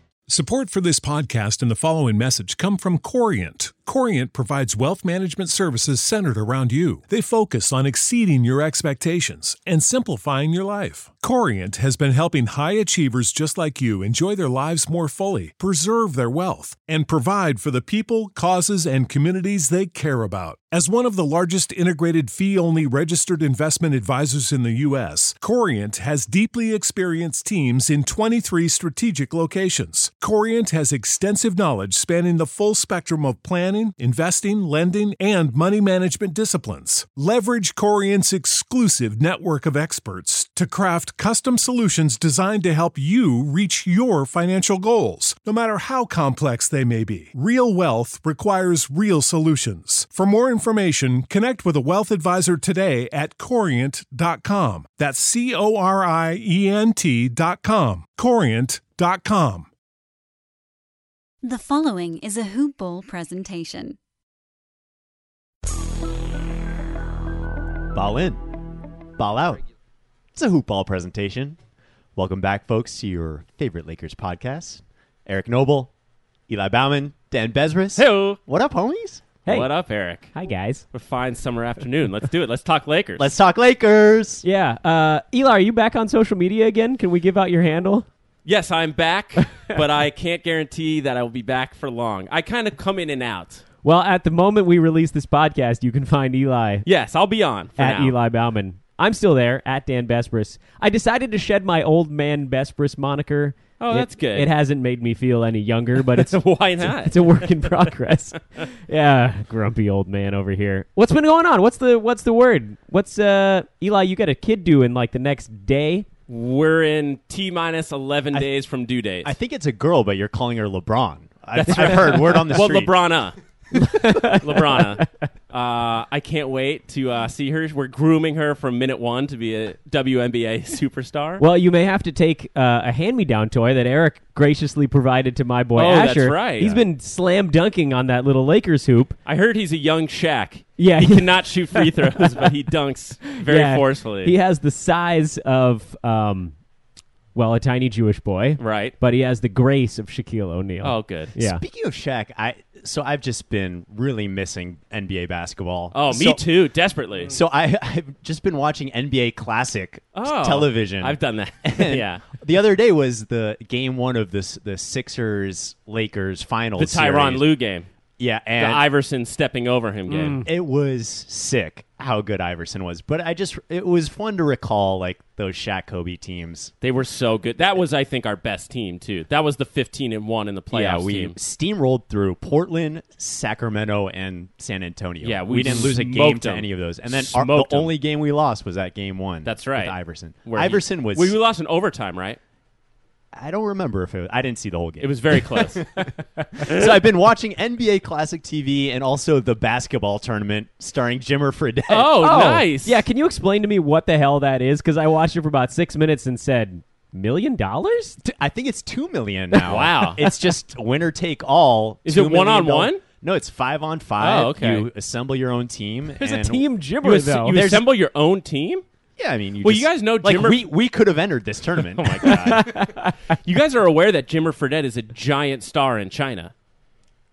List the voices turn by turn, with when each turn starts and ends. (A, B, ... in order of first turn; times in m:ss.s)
0:00.3-0:59.7 A
1:01.4-1:04.0 B
1:07.9-1:08.4 C
1:09.2-1:09.6 C
1:10.3-1:11.6 C
1:12.2-1:15.9 C
1:16.5-1:19.2 C
1:18.0-1:18.4 D
1:19.4-1:20.3 D
1:20.3-1:20.8 E
1:20.9-1:23.3 D
1:23.2-1:24.4 C
1:24.4-1:28.1 E
1:28.4-1:33.6 D
1:33.8-1:36.8 E
1:36.8-1:38.2 D
1:37.8-1:56.1 E
1:43.8-1:44.5 D
1:46.0-1:47.7 D
1:56.3-1:59.3 D
1:59.2-2:03.0 C
2:01.5-2:03.4 D
2:01.8-2:02.4 E
2:03.7-2:05.1 E
2:04.0-2:11.4 D
2:11.4-2:19.2 E
2:15.7-2:16.8 D
2:19.2-2:24.3 D
2:20.8-2:22.5 E
2:23.3-2:26.5 E
2:27.3-2:31.6 E
2:28.6-2:28.9 D
2:30.8-2:31.3 D
2:31.4-2:36.4 C
2:35.9-2:37.3 D
2:37.3-2:47.4 C
2:40.1-2:42.3 D
2:46.8-2:47.9 D
2:48.2-2:48.8 C
2:48.6-2:50.4 D
2:50.1-2:50.5 E
2:50.4-2:56.7 C
2:56.8-3:01.4 D
3:00.7-3:11.4 C
3:05.2-3:07.9 D
3:09.4-3:12.4 D
3:13.3-3:22.2 C
3:15.0-3:16.9 D
3:21.9-3:23.0 D
3:22.2-3:28.2 E
3:28.2-3:36.6 C
3:29.6-3:30.2 D
3:32.0-3:33.0 D
3:34.2-3:34.9 D
3:36.2-3:37.6 E
3:37.0-3:38.8 D
3:37.5-3:37.8 C
3:39.2-3:42.6 C
3:39.6-3:40.7 D
3:41.9-3:42.9 D
3:42.2-3:43.2 E
3:43.4-3:46.5 D